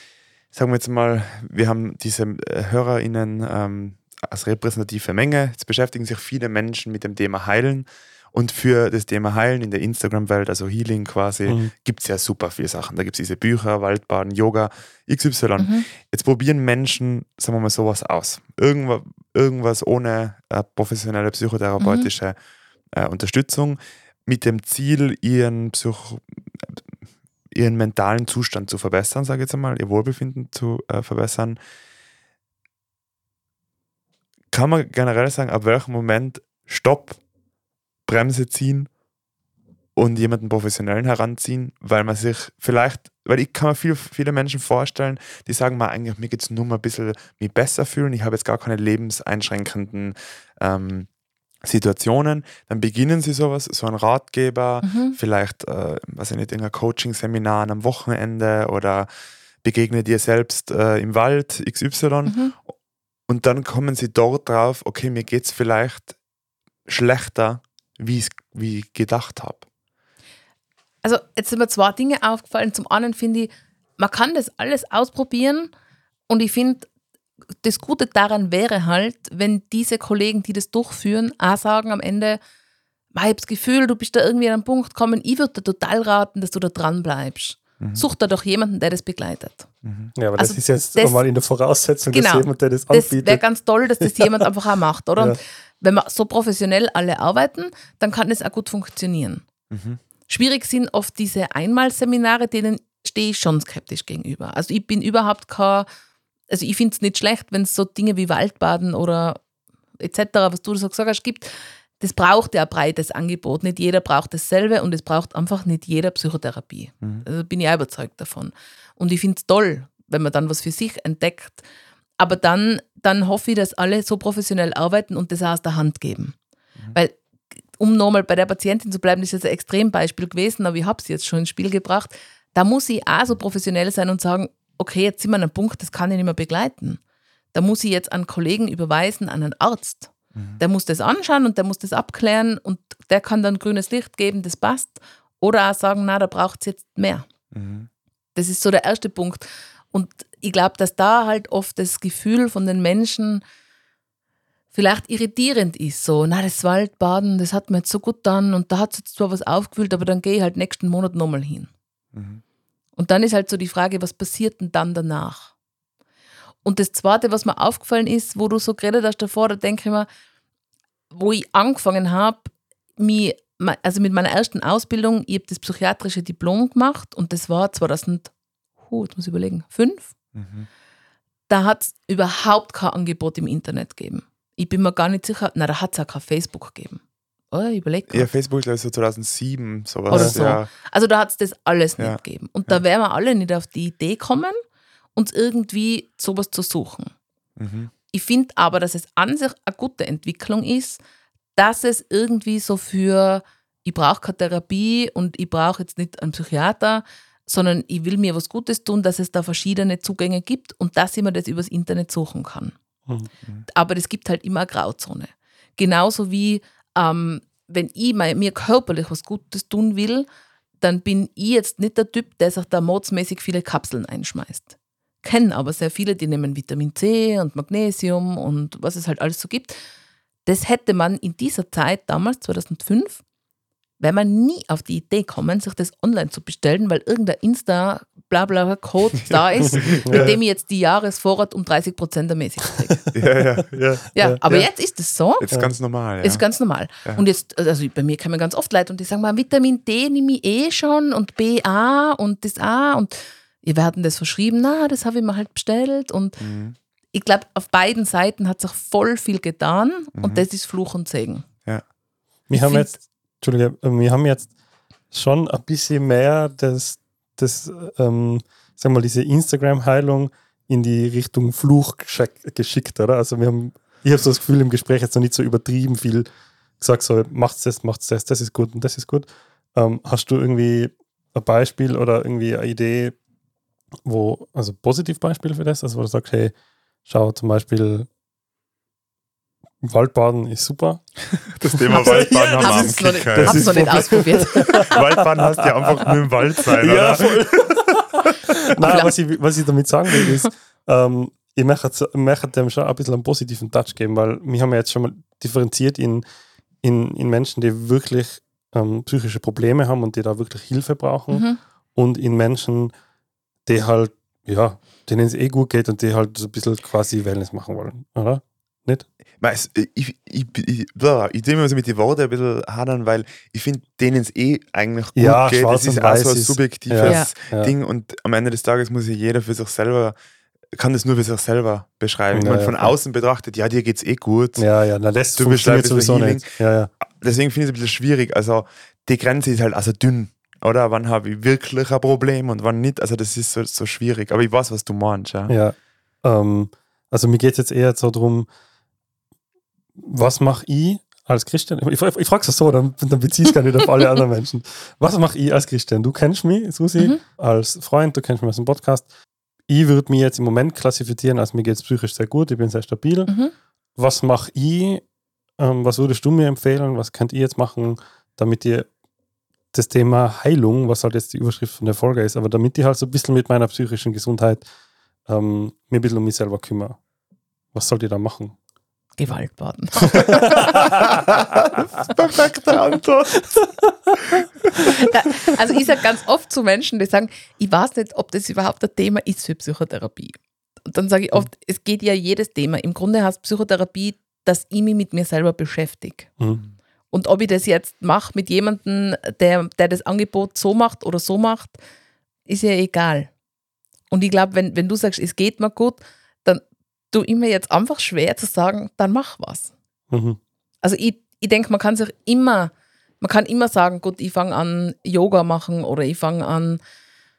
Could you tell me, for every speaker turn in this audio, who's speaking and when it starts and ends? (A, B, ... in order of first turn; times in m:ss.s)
0:00.5-0:22.4 A
0:11.4-0:11.7 B
0:15.6-0:15.8 C
0:21.8-0:22.1 C
0:22.9-0:26.8 A
0:27.5-0:31.6 A
0:34.5-0:37.2 A
0:38.0-0:38.9 A
0:40.0-0:51.1 A
0:51.6-0:59.1 A
0:54.8-0:55.2 C
0:59.6-1:02.4 A
1:02.2-1:02.5 C
1:03.3-1:06.1 A
1:06.9-1:09.6 A
1:11.0-1:15.7 C
1:16.3-1:16.8 C
1:17.6-1:22.4 C
1:23.1-1:29.7 C
1:29.8-1:30.1 A
1:30.2-1:33.4 B
1:30.4-1:31.2 C
1:32.1-1:39.4 C
1:34.0-1:34.4 B
1:39.7-1:40.0 A
1:40.3-1:45.9 C
1:46.5-1:49.4 C
1:50.0-2:01.6 C
2:02.2-2:06.4 C
2:07.8-2:17.0 C
2:17.5-2:27.3 C
2:20.3-2:20.6 A
2:27.5-2:27.9 A
2:28.3-2:33.4 C
2:34.7-2:41.7 C
2:42.1-2:42.4 A
2:43.0-2:45.5 C
2:46.6-2:50.1 C
2:51.1-2:58.3 C
2:58.8-3:00.1 C
3:00.3-3:00.7 A
3:01.5-3:07.0 C
3:07.5-3:08.3 C
3:08.1-3:10.7 A
3:10.1-3:10.4 B
3:10.1-3:14.6 C
3:12.0-3:12.8 A
3:15.1-3:17.1 C
3:17.6-3:17.9 A
3:18.1-3:21.0 C
3:21.6-3:32.7 C
3:33.7-3:40.3 C
3:40.8-3:49.8 C
3:50.4-3:53.2 C
3:54.0-4:03.0 C
3:59.2-4:00.3 A
4:00.0-4:00.4 B
4:03.1-4:03.8 A
4:03.6-4:04.7 B
4:04.1-4:05.5 C
4:05.4-4:06.4 A
4:06.2-4:16.4 C
4:16.4-4:16.8 A
4:17.1-4:21.4 C
4:20.2-4:20.4 A
4:22.5-4:24.5 B
4:22.5-4:23.0 C
4:25.1-4:36.2 B
4:36.8-4:43.2 B
4:44.0-4:46.5 B
4:47.0-4:48.1 B
4:49.8-4:51.0 B
4:51.4-4:57.4 A
4:51.7-5:06.2 B
4:51.9-4:55.0 C
4:58.8-4:59.1 C
5:06.8-5:12.9 B
5:11.3-5:11.6 C
5:13.6-5:19.1 B
5:19.4-5:30.1 A
5:25.1-5:27.7 B
5:27.0-5:27.3 C
5:30.8-5:34.6 A
5:32.3-5:32.9 B
5:34.6-5:36.9 B
5:35.4-5:36.4 A
5:37.0-5:45.5 A
5:45.5-5:48.5 B
5:50.0-5:59.1 B
5:59.7-6:03.3 B
6:03.3-6:03.5 C
6:04.0-6:05.0 B
6:05.6-6:08.9 B
6:09.7-6:14.6 B
6:15.3-6:17.0 B
6:17.7-6:18.5 B
6:19.2-6:20.9 C
6:20.1-6:20.8 B
6:20.2-6:23.7 A
6:23.6-6:23.9 B
6:24.2-6:24.4 A
6:24.9-6:36.3 C
6:37.1-6:41.8 C
6:42.5-6:43.3 C
6:44.1-6:46.6 C
6:47.1-6:49.7 C
6:50.1-6:50.4 B
6:50.8-6:56.8 C